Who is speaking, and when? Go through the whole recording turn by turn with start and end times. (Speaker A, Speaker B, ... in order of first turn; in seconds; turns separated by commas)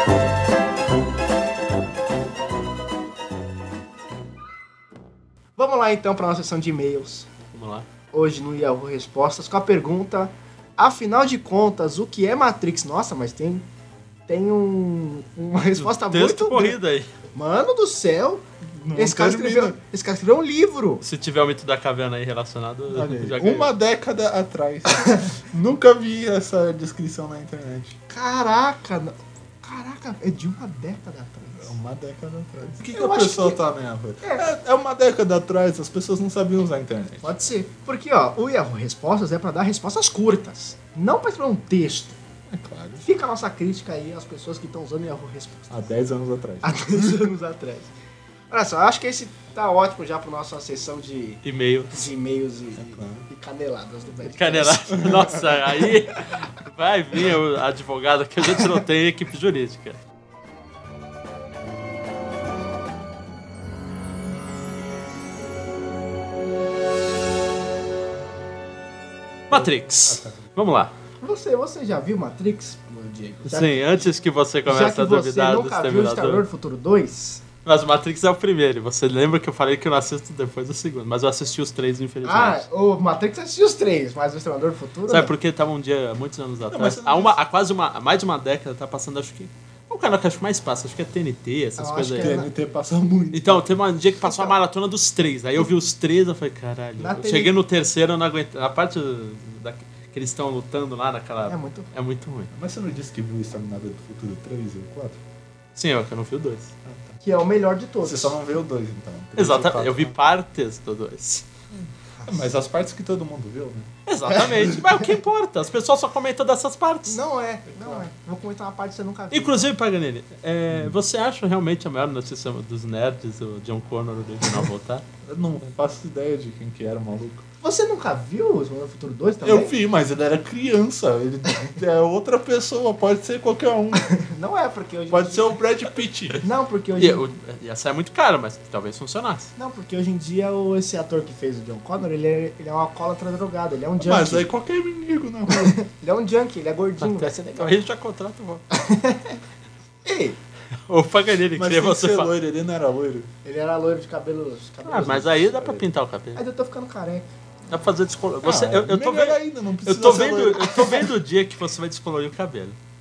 Speaker A: 5.6-7.3, Speaker B: 7.5-7.9, Speaker A: 8.1-13.7, Speaker A: 14.3-16.8, Speaker B: 15.8-17.1, Speaker A: 17.3-21.0, Speaker C: 18.6-19.8, Speaker B: 21.0-23.7, Speaker C: 22.9-28.0, Speaker A: 24.9-25.3, Speaker A: 28.1-31.7, Speaker C: 31.6-37.3, Speaker A: 32.9-33.6, Speaker A: 34.2-34.5, Speaker A: 37.2-42.2, Speaker C: 42.5-43.0, Speaker A: 43.0-45.9, Speaker C: 45.7-47.3, Speaker A: 46.6-47.9, Speaker A: 48.5-55.4, Speaker B: 51.4-52.1, Speaker C: 52.8-53.3, Speaker B: 54.2-60.0, Speaker C: 55.0-55.4, Speaker B: 69.5-70.9, Speaker C: 69.5-70.5, Speaker A: 71.2-74.1, Speaker B: 73.5-76.5, Speaker A: 74.7-77.4, Speaker B: 77.7-82.7, Speaker A: 82.2-85.3, Speaker B: 85.1-92.3, Speaker C: 86.7-87.4, Speaker A: 91.8-92.5, Speaker C: 92.2-93.8, Speaker B: 93.3-102.5, Speaker A: 94.2-94.6, Speaker A: 97.0-97.5, Speaker A: 101.4-101.9, Speaker C: 102.5-105.2, Speaker B: 105.8-106.7, Speaker C: 106.8-107.2, Speaker A: 107.2-108.4, Speaker C: 108.0-110.2, Speaker B: 109.4-111.5, Speaker C: 111.7-113.9, Speaker A: 112.2-112.5, Speaker B: 114.1-117.2, Speaker C: 114.5-114.8, Speaker A: 117.1-119.7, Speaker B: 119.3-125.0, Speaker C: 120.7-121.0, Speaker C: 125.2-127.4, Speaker A: 127.6-129.7, Speaker C: 129.4-134.1, Speaker A: 134.1-135.5, Speaker C: 135.1-136.4, Speaker A: 136.4-137.3, Speaker B: 137.0-139.5, Speaker A: 139.6-144.5, Speaker C: 144.0-145.8, Speaker A: 145.5-147.8, Speaker B: 147.0-148.7, Speaker A: 148.7-149.4, Speaker A: 150.1-150.4, Speaker B: 150.9-152.3, Speaker C: 151.6-153.3, Speaker A: 153.4-155.6, Speaker B: 154.9-156.4, Speaker C: 155.6-155.8, Speaker A: 156.3-157.3, Speaker B: 157.7-162.8, Speaker C: 158.4-161.1